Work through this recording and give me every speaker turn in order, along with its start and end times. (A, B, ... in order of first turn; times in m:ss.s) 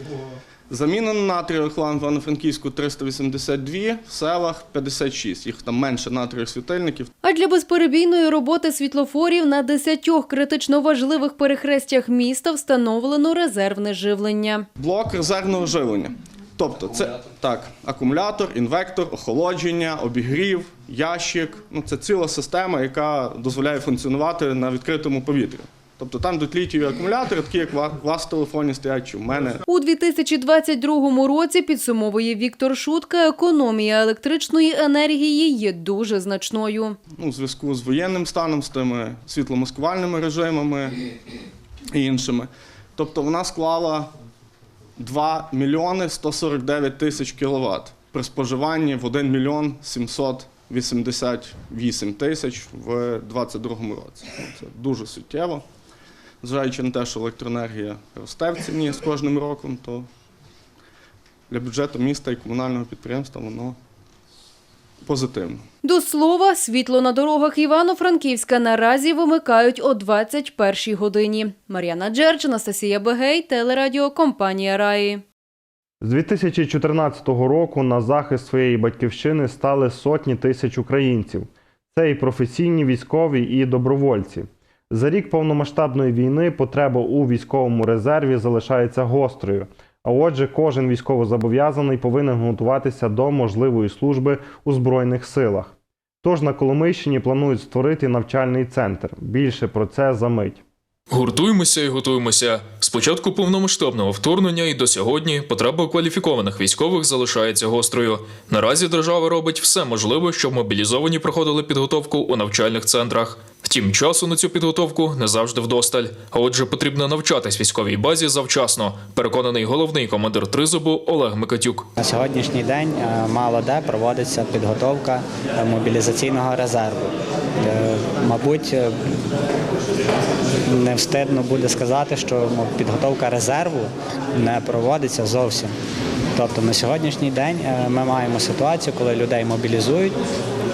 0:00.7-0:07.1 A
0:07.2-0:14.6 B
0:14.8-0:29.6 A
0:29.7-0:37.0 B
0:37.1-0:41.0 A
0:41.9-0:44.1 A
0:45.0-0:55.6 A
0:56.4-1:00.1 A
1:01.5-1:03.8 A
1:05.0-1:05.6 A
1:05.8-1:15.2 B
1:16.0-1:40.6 C
1:41.1-2:01.9 D
2:02.0-2:09.2 E
2:10.6-2:15.7 E
2:16.3-2:20.2 E